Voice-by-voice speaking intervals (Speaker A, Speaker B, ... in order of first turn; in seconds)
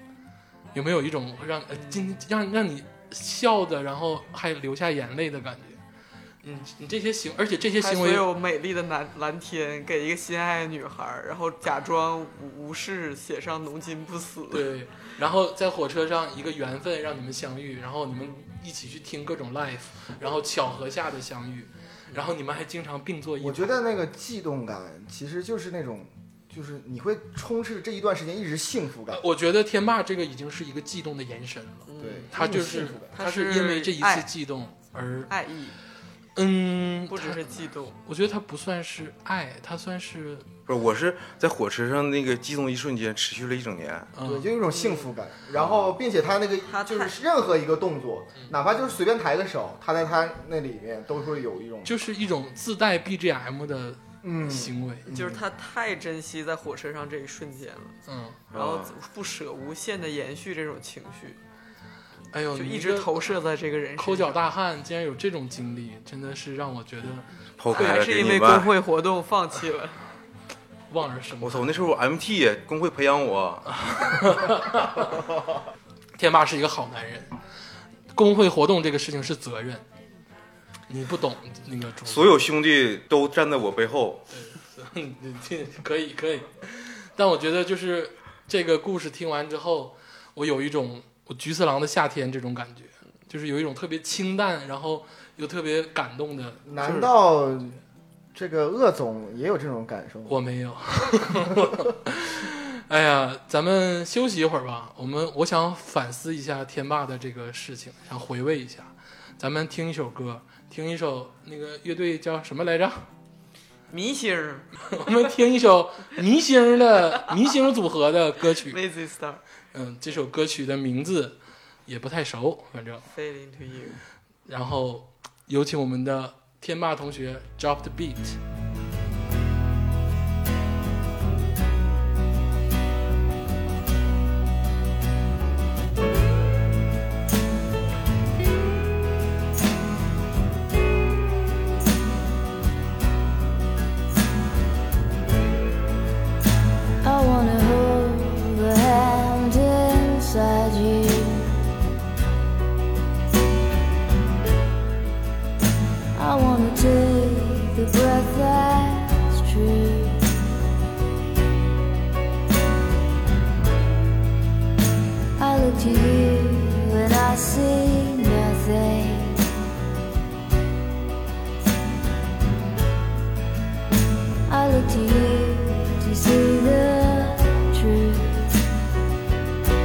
Speaker A: 0.7-5.8, 6.4-8.3, 14.5-23.8, 29.1-35.3, 36.4-37.5, 38.0-40.5, 44.2-44.5, 51.9-55.1, 58.1-58.4, 62.3-63.3, 64.0-67.3, 70.9-71.8, 73.7-75.2, 76.2-77.3, 78.1-79.8, 80.9-82.4, 84.3-96.7, 100.3-113.0, 114.9-118.8, 119.7-123.0, 124.5-128.4
Speaker B: 7.8-14.7, 31.9-32.3, 33.1-34.3, 35.3-35.8, 37.1-38.0, 44.7-45.1, 46.7-47.2, 55.1-58.0, 58.5-61.4, 62.6-64.4, 67.7-70.0, 113.9-114.7, 118.6-119.4, 123.1-124.0
Speaker C: 23.4-29.2, 32.0-33.1, 44.2-51.9, 54.2-55.4, 96.7-97.8, 98.3-100.3
Speaker D: 40.7-44.1, 58.5-58.9, 67.6-68.7, 71.4-73.7, 82.1-84.2
Speaker E: 147.0-151.6, 156.2-160.5, 165.4-169.5, 174.5-178.5